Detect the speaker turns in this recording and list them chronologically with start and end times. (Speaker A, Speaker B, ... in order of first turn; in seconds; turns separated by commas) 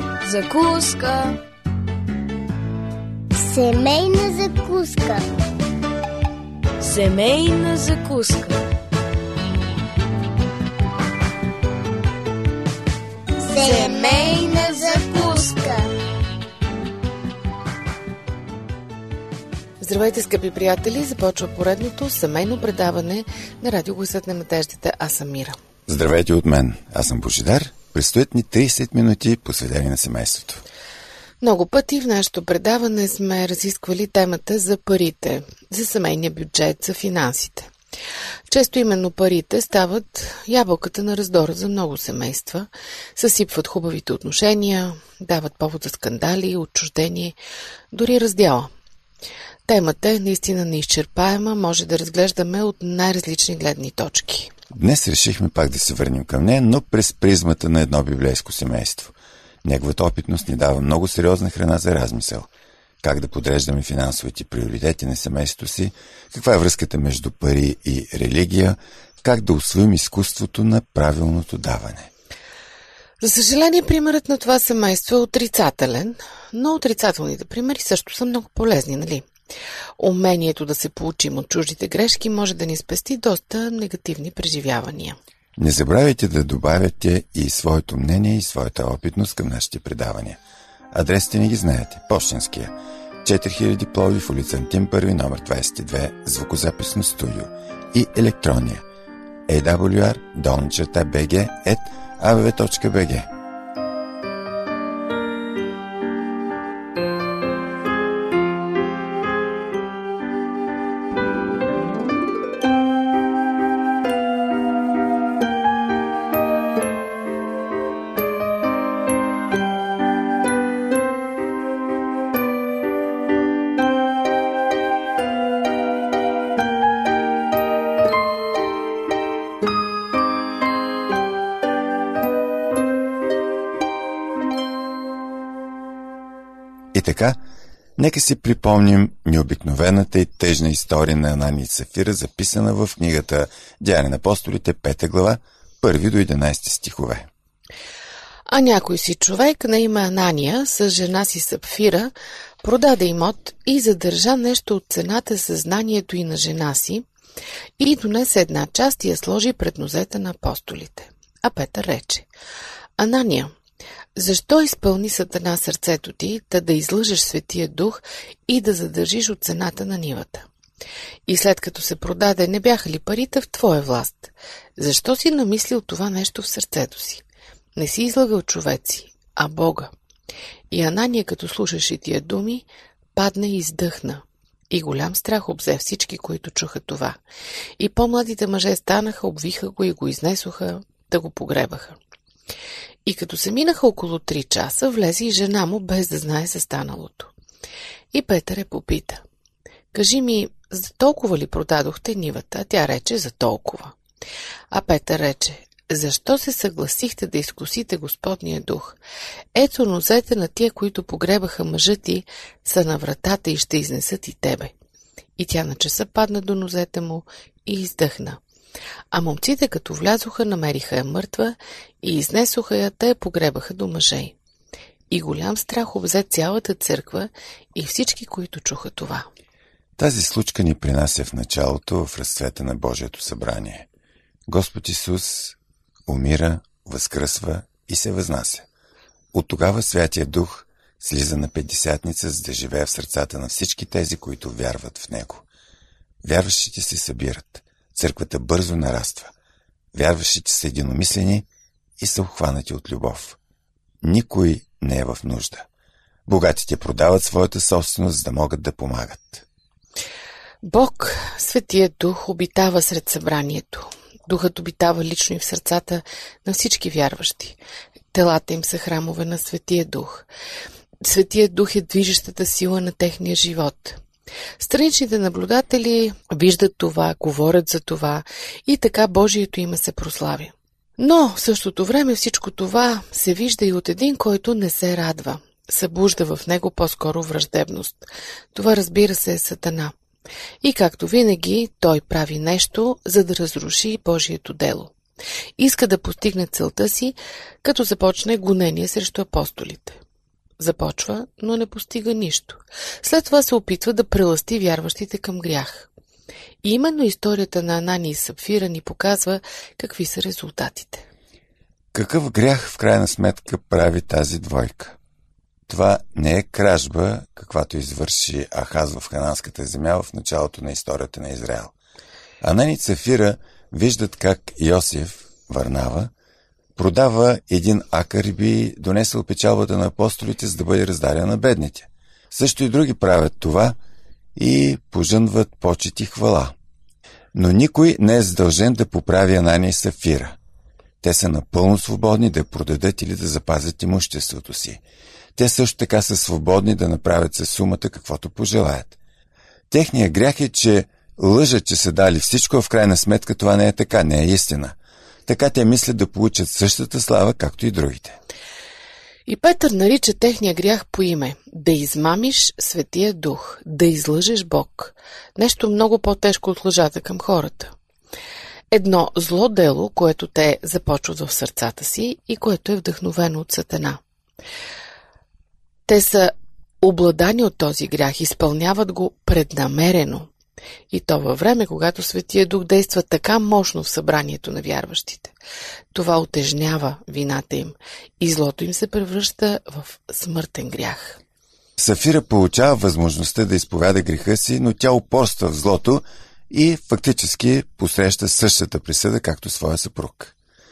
Speaker A: 0.2-1.4, Speaker B: 3.3-5.3, Speaker A: 6.8-8.6, Speaker B: 13.4-15.9, Speaker A: 13.6-15.0, Speaker C: 19.8-25.6, Speaker D: 25.9-30.6, Speaker C: 31.4-37.7, Speaker C: 38.5-47.4, Speaker C: 47.9-48.7, Speaker C: 49.6-54.5, Speaker D: 54.7-62.5, Speaker D: 63.0-72.1, Speaker C: 73.2-79.3, Speaker C: 80.0-85.2, Speaker D: 85.6-90.4, Speaker D: 90.9-92.7, Speaker D: 93.2-98.8, Speaker D: 99.5-103.3, Speaker D: 136.9-137.4, Speaker D: 138.0-147.3, Speaker C: 148.5-157.1, Speaker C: 157.8-162.2, Speaker C: 163.0-163.5, Speaker C: 164.2-170.5, Speaker C: 171.2-177.2, Speaker C: 177.8-179.9, Speaker C: 180.7-187.2, Speaker C: 187.8-192.0, Speaker C: 193.0-197.3, Speaker C: 198.1-199.2, Speaker C: 199.9-203.9, Speaker C: 204.7-209.0, Speaker C: 209.5-214.7, Speaker C: 215.4-218.4, Speaker C: 219.1-224.3, Speaker C: 225.1-229.3, Speaker D: 230.0-233.8, Speaker D: 234.5-235.6, Speaker D: 236.1-238.7, Speaker D: 239.3-245.4, Speaker D: 246.2-249.3, Speaker D: 249.9-251.4, Speaker D: 252.0-253.4, Speaker D: 254.0-255.7, Speaker D: 256.2-259.4, Speaker C: 260.6-267.6, Speaker C: 268.1-270.2, Speaker C: 271.0-274.0, Speaker C: 274.6-289.9, Speaker C: 290.6-294.9, Speaker C: 295.6-300.0, Speaker C: 300.6-305.9, Speaker C: 306.6-311.0, Speaker D: 311.9-315.0, Speaker D: 315.7-321.7, Speaker D: 322.4-326.1, Speaker D: 326.8-333.8, Speaker D: 334.4-336.5, Speaker D: 337.3-340.4, Speaker D: 341.0-344.8, Speaker D: 345.4-349.0, Speaker D: 349.7-354.8, Speaker D: 355.3-358.2, Speaker C: 359.3-367.7, Speaker C: 368.7-374.0, Speaker C: 375.9-380.3, Speaker C: 380.9-385.3, Speaker C: 385.9-391.2, Speaker D: 391.8-400.3